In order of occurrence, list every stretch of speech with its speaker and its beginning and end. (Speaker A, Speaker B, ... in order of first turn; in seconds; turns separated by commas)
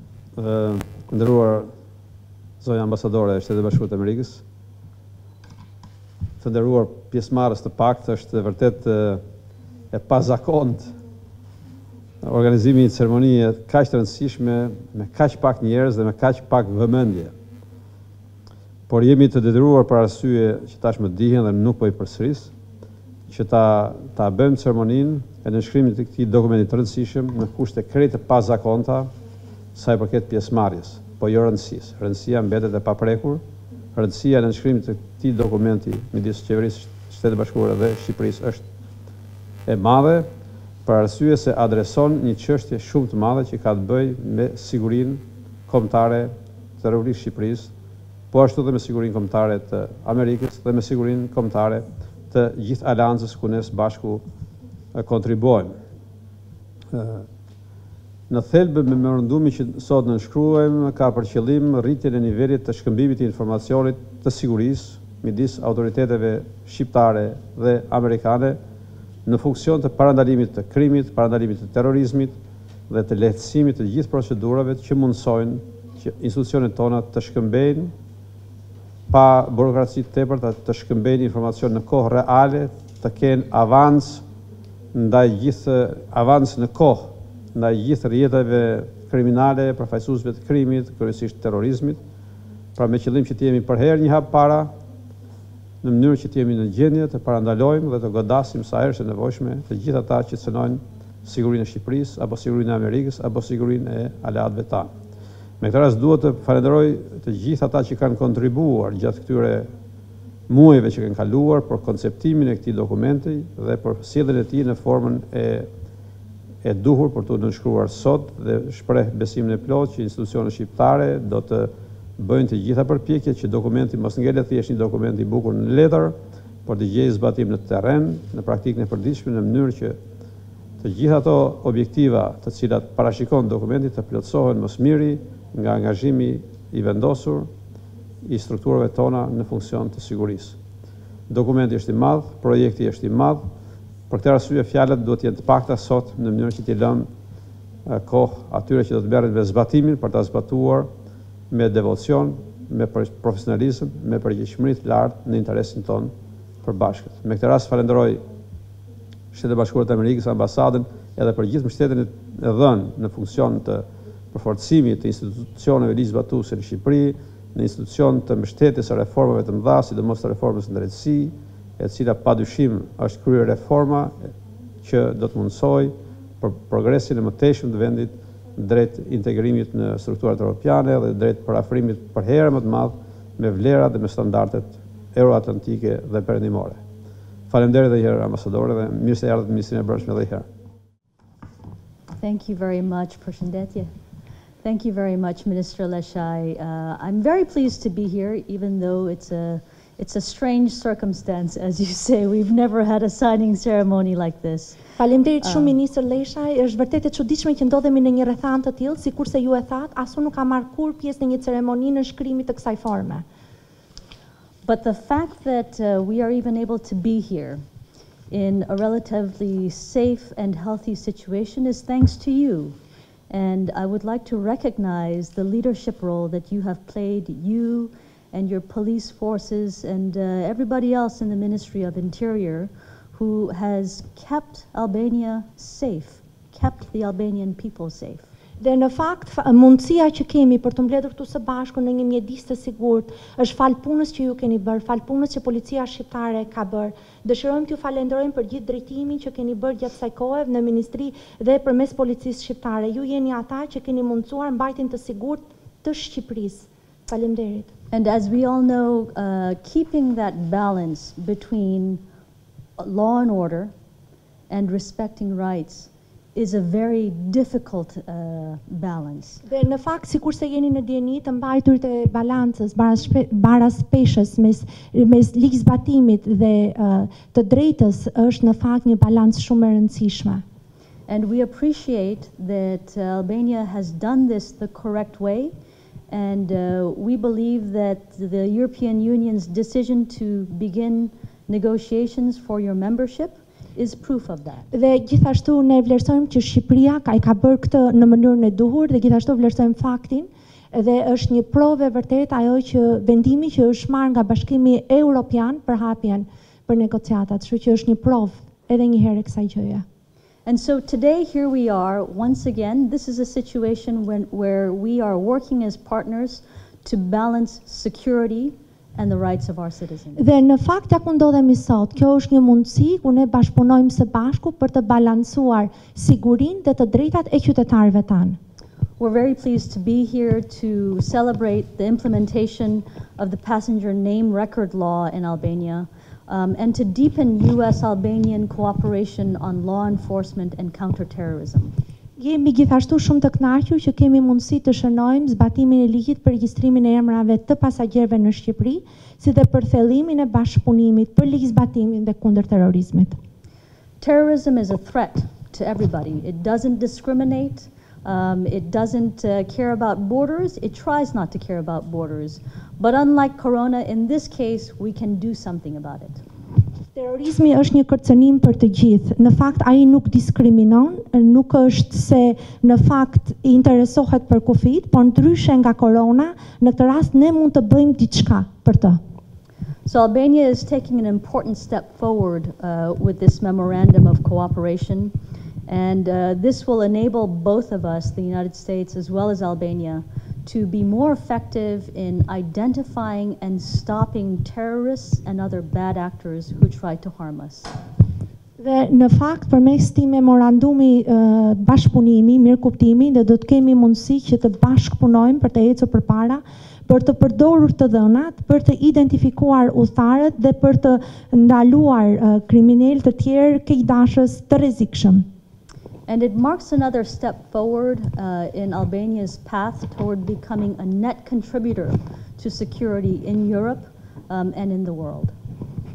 Speaker A: 0.3-1.7, Speaker A: 2.6-4.4, Speaker A: 6.4-9.2, Speaker A: 9.9-10.9, Speaker A: 12.2-17.3, Speaker A: 18.9-22.5, Speaker A: 23.3-29.1, Speaker A: 29.7-33.4, Speaker A: 33.9-38.6, Speaker A: 39.6-40.2, Speaker A: 40.9-47.7, Speaker A: 48.3-54.2, Speaker A: 54.9-55.7, Speaker A: 56.9-57.2, Speaker A: 58.3-68.6, Speaker A: 69.2-72.3, Speaker A: 72.9-77.9, Speaker A: 79.1-84.2, Speaker A: 84.9-92.0, Speaker A: 92.8-94.7, Speaker A: 95.8-104.9, Speaker A: 105.6-109.7, Speaker A: 110.5-115.7, Speaker A: 116.6-126.1, Speaker A: 126.7-130.0, Speaker A: 130.8-137.5, Speaker A: 138.2-140.6, Speaker A: 141.3-143.4, Speaker A: 144.1-147.1, Speaker A: 147.8-150.9, Speaker A: 151.5-156.1, Speaker A: 156.6-158.2, Speaker A: 159.3-174.3, Speaker A: 174.8-186.8, Speaker A: 187.5-190.4, Speaker B: 192.2-193.9, Speaker B: 194.6-204.8, Speaker C: 205.0-213.2, Speaker B: 205.4-205.7, Speaker B: 214.6-217.6, Speaker B: 218.3-222.8, Speaker B: 223.3-238.3, Speaker C: 238.6-257.7, Speaker B: 257.9-262.0, Speaker B: 262.8-263.7, Speaker B: 264.5-269.4, Speaker C: 269.4-280.4, Speaker B: 281.1-285.5, Speaker B: 286.1-294.6, Speaker C: 294.7-309.8, Speaker B: 310.4-320.3, Speaker C: 320.2-328.4, Speaker B: 329.0-341.7, Speaker C: 342.2-353.2, Speaker B: 354.0-366.2, Speaker C: 366.9-379.0, Speaker B: 379.8-385.1, Speaker B: 385.7-397.7, Speaker C: 398.6-415.3, Speaker B: 416.1-425.3